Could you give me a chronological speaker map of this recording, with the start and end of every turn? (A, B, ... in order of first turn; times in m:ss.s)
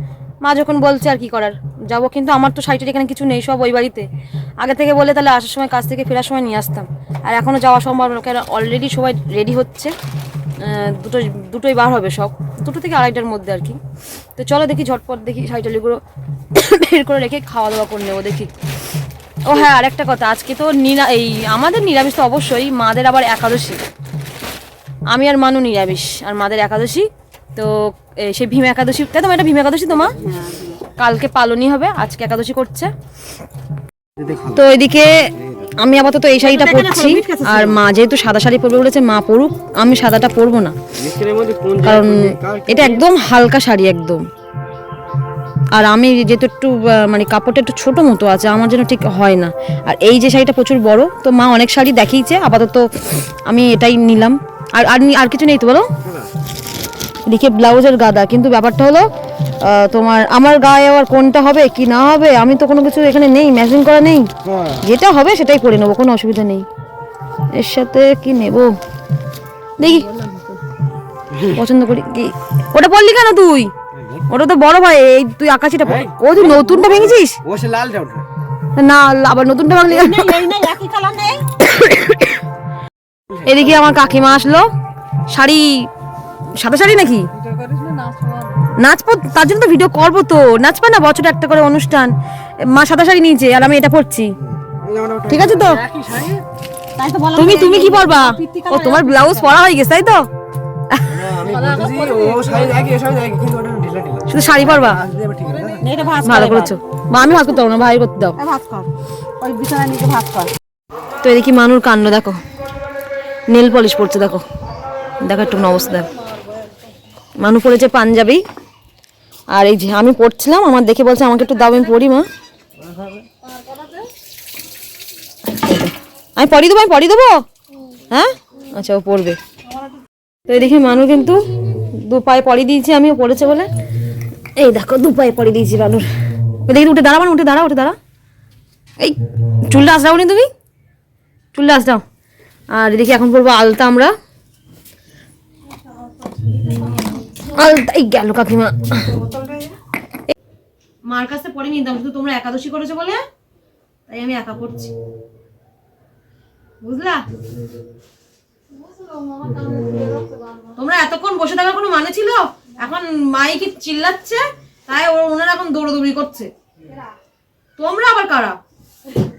0:00.4-0:04.1 A
0:04.6-0:09.9 A
0:10.6-0:13.8 A
0:14.4-0:16.0 A
0:16.5-0:18.5 A
0:19.5-0:23.8 A
0:25.1-0:30.2 A
0:30.2-0:30.8 B
0:31.0-0:32.9 A
0:34.2-0:34.6 C
0:34.5-0:35.2 A
0:35.8-0:40.8 A
0:36.4-0:37.8 B
0:41.0-0:42.9 C
0:41.8-0:44.2 A
0:45.7-0:55.9 A
0:57.3-1:04.3 A
1:04.8-1:06.7 A
1:07.6-1:08.8 A
1:09.8-1:10.1 A
1:10.1-1:10.5 B
1:11.4-1:13.7 A
1:14.3-1:17.4 A
1:16.4-1:16.9 B
1:17.4-1:18.3 C
1:18.8-1:20.4 A
1:19.9-1:21.5 B
1:21.6-1:22.4 A
1:23.4-1:24.7 A
1:25.3-1:25.9 A
1:26.6-1:27.3 A
1:27.5-1:28.6 B
1:28.8-1:32.1 A
1:32.6-1:34.3 A
1:34.6-1:35.9 C
1:35.3-1:35.8 A
1:35.5-1:36.4 B
1:37.0-1:39.6 B
1:37.4-1:40.2 A
1:40.9-1:41.2 A
1:41.1-1:45.8 C
1:41.4-1:42.8 B
1:44.3-1:45.0 A
1:45.4-1:46.8 B
1:46.2-1:48.4 A
1:48.4-1:50.5 B
1:51.2-1:52.4 A
1:53.5-1:54.4 A
1:55.2-1:56.1 A
1:57.4-1:58.4 A
1:59.5-2:02.3 A
2:03.5-2:04.0 B
2:05.5-2:07.4 A
2:08.1-2:09.4 A
2:10.5-2:13.7 A
2:14.6-2:18.0 A
2:19.0-2:20.5 A
2:21.5-2:22.0 A
2:22.7-2:24.1 A
2:26.6-2:27.0 B
2:27.4-2:29.2 A
2:29.1-2:29.7 B
2:31.1-2:33.2 A
2:34.1-2:34.9 A
2:36.8-2:37.3 A
2:39.1-2:40.4 B
2:40.7-2:46.5 A
2:47.8-2:48.6 A